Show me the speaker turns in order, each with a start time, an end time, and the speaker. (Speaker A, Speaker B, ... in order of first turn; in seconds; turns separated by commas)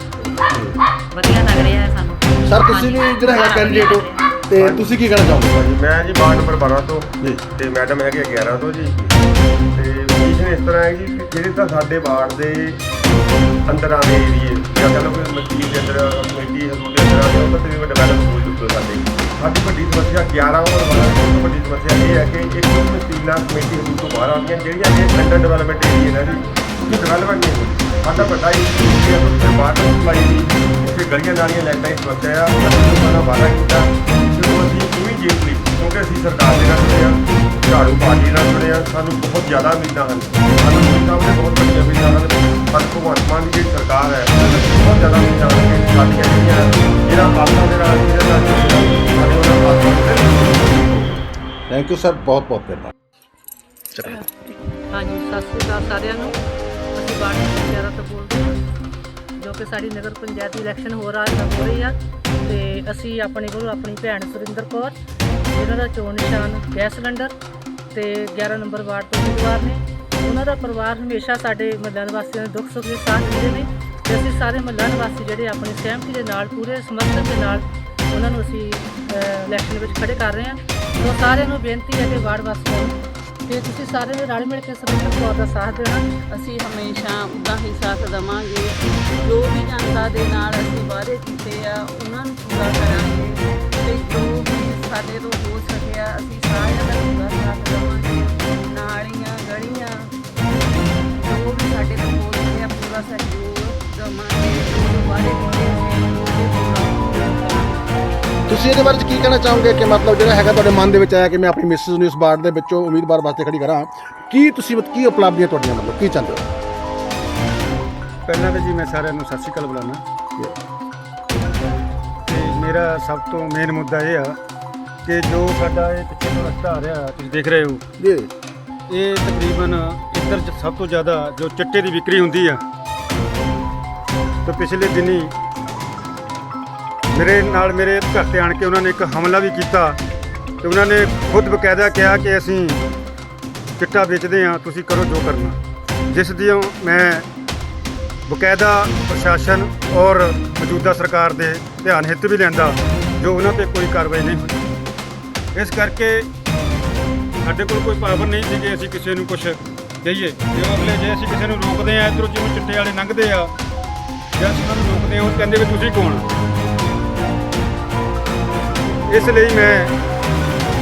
Speaker A: 0.3-0.8, Speaker B: 1.1-4.3, Speaker A: 2.4-5.5, Speaker C: 5.5-9.1, Speaker C: 9.8-12.8, Speaker C: 13.7-51.1, Speaker A: 51.7-52.9, Speaker A: 53.9-54.2, Speaker D: 54.9-56.4, Speaker D: 56.9-58.5, Speaker D: 59.4-64.9, Speaker D: 65.5-67.3, Speaker D: 67.9-86.0, Speaker E: 86.3-100.1, Speaker E: 101.2-107.9, Speaker A: 108.5-116.4, Speaker F: 118.3-120.0, Speaker F: 122.3-124.3, Speaker F: 125.0-127.8, Speaker A: 128.0-128.3, Speaker F: 128.9-132.6, Speaker F: 134.4-135.3, Speaker F: 137.1-140.0, Speaker F: 140.6-142.8, Speaker F: 143.8-145.6, Speaker F: 146.1-147.2, Speaker F: 148.3-154.6, Speaker F: 155.5-156.2, Speaker F: 157.4-163.5, Speaker F: 164.4-166.2, Speaker F: 169.1-169.9